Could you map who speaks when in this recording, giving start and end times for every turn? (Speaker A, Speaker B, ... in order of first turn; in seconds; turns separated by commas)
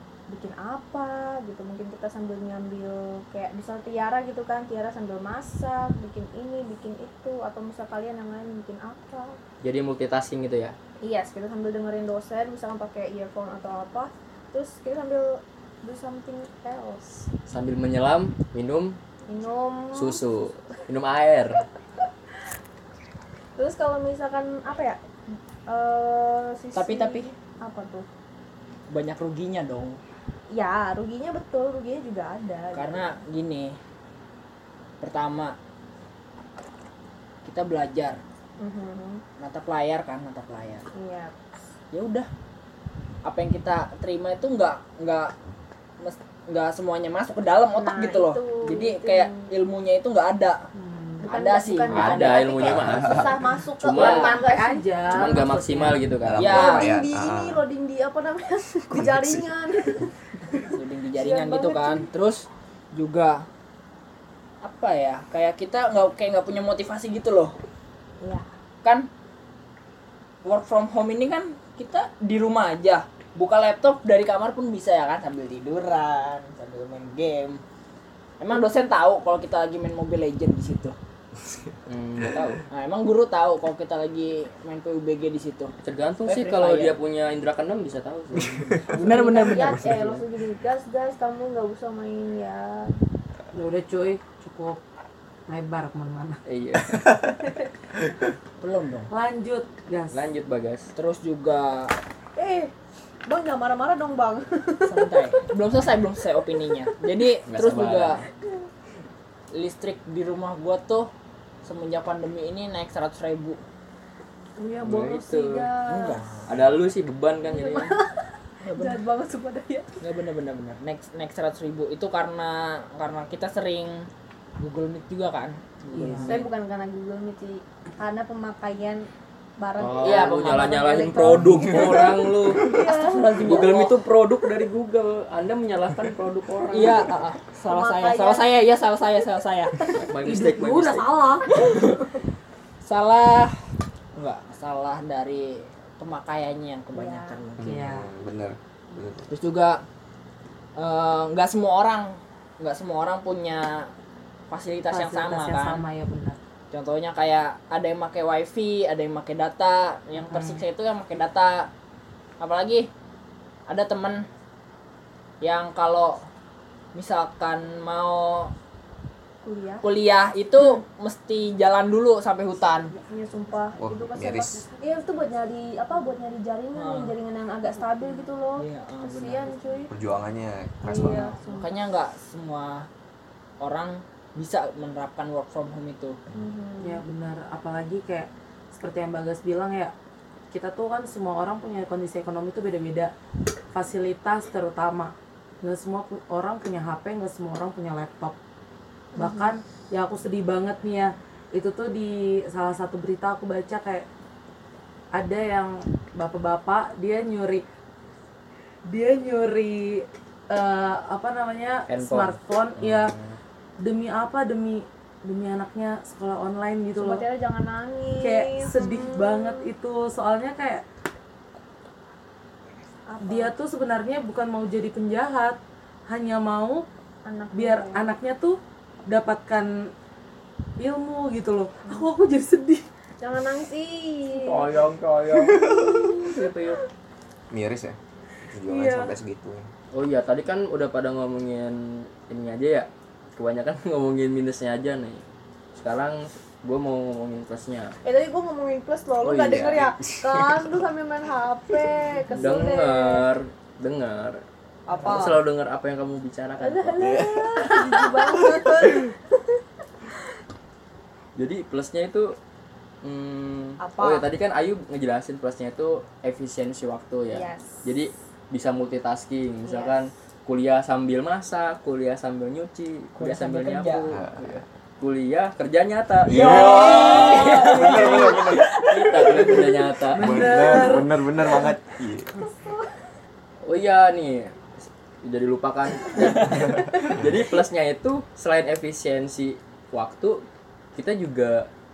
Speaker A: 0.3-9.4, Speaker B: 9.6-10.8, Speaker A: 11.0-17.3, Speaker B: 17.5-19.0, Speaker A: 19.3-20.2, Speaker B: 19.9-21.6, Speaker A: 23.6-28.1, Speaker C: 26.8-27.3, Speaker C: 28.9-30.0, Speaker A: 30.5-33.1, Speaker C: 32.7-33.8, Speaker C: 35.0-35.6, Speaker C: 37.5-38.2, Speaker A: 38.6-39.2, Speaker C: 39.4-40.9, Speaker A: 40.9-41.4, Speaker C: 41.9-42.3, Speaker C: 43.2-45.4, Speaker C: 46.0-50.7, Speaker A: 47.7-49.5, Speaker D: 50.7-51.2, Speaker A: 51.2-55.4, Speaker C: 51.2-52.3, Speaker B: 51.9-54.4, Speaker E: 51.9-53.4, Speaker D: 53.9-56.0, Speaker C: 54.0-54.3, Speaker B: 55.1-56.7, Speaker E: 56.2-57.6, Speaker C: 56.4-56.9, Speaker A: 56.4-62.1, Speaker E: 58.9-59.5, Speaker C: 60.7-63.5, Speaker C: 64.6-67.6, Speaker A: 68.2-68.5, Speaker C: 68.8-69.1, Speaker C: 70.5-77.6, Speaker C: 78.4-81.0, Speaker B: 81.9-82.6, Speaker C: 82.7-85.7, Speaker B: 85.8-89.0, Speaker C: 86.3-87.0, Speaker E: 88.4-88.7, Speaker C: 88.9-89.8, Speaker A: 89.0-93.0, Speaker B: 89.8-90.2, Speaker D: 93.5-94.8, Speaker D: 95.5-96.4, Speaker B: 96.5-97.1, Speaker E: 96.9-97.3, Speaker C: 98.6-99.1, Speaker D: 99.1-100.2, Speaker B: 100.1-100.9, Speaker C: 101.0-102.0, Speaker A: 102.4-102.7, Speaker A: 103.3-105.2, Speaker C: 104.9-108.3, Speaker B: 107.5-108.2, Speaker C: 109.5-111.1, Speaker C: 111.6-113.6, Speaker A: 114.6-116.3, Speaker B: 114.8-115.7, Speaker C: 115.8-116.6, Speaker B: 116.5-118.0, Speaker A: 117.4-120.0, Speaker C: 118.6-119.0, Speaker C: 120.0-126.5, Speaker D: 125.9-126.5, Speaker A: 126.2-133.7, Speaker B: 129.8-132.7, Speaker C: 130.0-131.8, Speaker C: 132.6-134.0, Speaker B: 133.4-137.1, Speaker C: 136.7-139.9, Speaker A: 137.7-138.5, Speaker B: 139.9-141.1, Speaker D: 140.2-141.6, Speaker C: 141.6-142.0, Speaker C: 142.8-147.8, Speaker A: 146.9-147.4, Speaker E: 147.6-149.3, Speaker D: 147.6-148.1, Speaker C: 149.3-149.8, Speaker C: 150.8-153.9, Speaker C: 154.5-155.9, Speaker D: 154.9-156.4, Speaker C: 156.7-161.7, Speaker D: 160.2-160.6, Speaker C: 162.4-162.9, Speaker C: 163.7-164.3, Speaker C: 165.4-166.2, Speaker C: 166.9-168.5, Speaker A: 169.4-169.9, Speaker C: 169.8-172.9, Speaker A: 172.9-179.9, Speaker E: 173.8-174.7, Speaker C: 176.7-177.2, Speaker C: 178.6-179.5, Speaker E: 179.9-181.3, Speaker A: 180.8-181.8, Speaker C: 181.0-182.9, Speaker C: 183.6-186.2, Speaker A: 186.3-187.0, Speaker D: 186.8-189.9, Speaker D: 190.5-193.1, Speaker D: 193.7-198.4, Speaker A: 199.2-199.5, Speaker D: 199.2-204.1, Speaker D: 205.1-207.6, Speaker D: 208.9-213.2, Speaker B: 211.9-213.4, Speaker D: 213.8-217.2, Speaker A: 217.0-219.7, Speaker D: 218.2-220.8, Speaker A: 223.1-223.5, Speaker D: 223.2-226.9, Speaker A: 227.2-228.1, Speaker D: 227.5-229.9, Speaker D: 230.8-232.8, Speaker A: 231.8-232.1, Speaker A: 233.2-234.8, Speaker B: 234.4-236.8, Speaker A: 235.5-236.4, Speaker E: 235.7-235.9, Speaker E: 237.5-239.7, Speaker D: 238.7-239.1, Speaker B: 239.9-245.2, Speaker B: 245.8-248.0, Speaker A: 248.0-253.3, Speaker B: 249.2-249.8, Speaker E: 249.3-250.7, Speaker B: 252.3-254.4, Speaker A: 254.9-255.4, Speaker B: 255.0-257.1, Speaker A: 256.6-259.4, Speaker E: 257.0-259.1, Speaker B: 261.4-262.4, Speaker B: 263.0-280.6, Speaker A: 263.8-264.3, Speaker A: 267.3-267.9, Speaker A: 269.6-270.1, Speaker C: 273.2-274.1, Speaker E: 274.1-274.6, Speaker E: 276.2-278.7, Speaker C: 276.4-279.7, Speaker A: 276.4-278.4, Speaker D: 280.1-281.1, Speaker E: 280.2-282.3, Speaker A: 280.3-281.1, Speaker A: 282.4-282.9, Speaker B: 283.6-291.7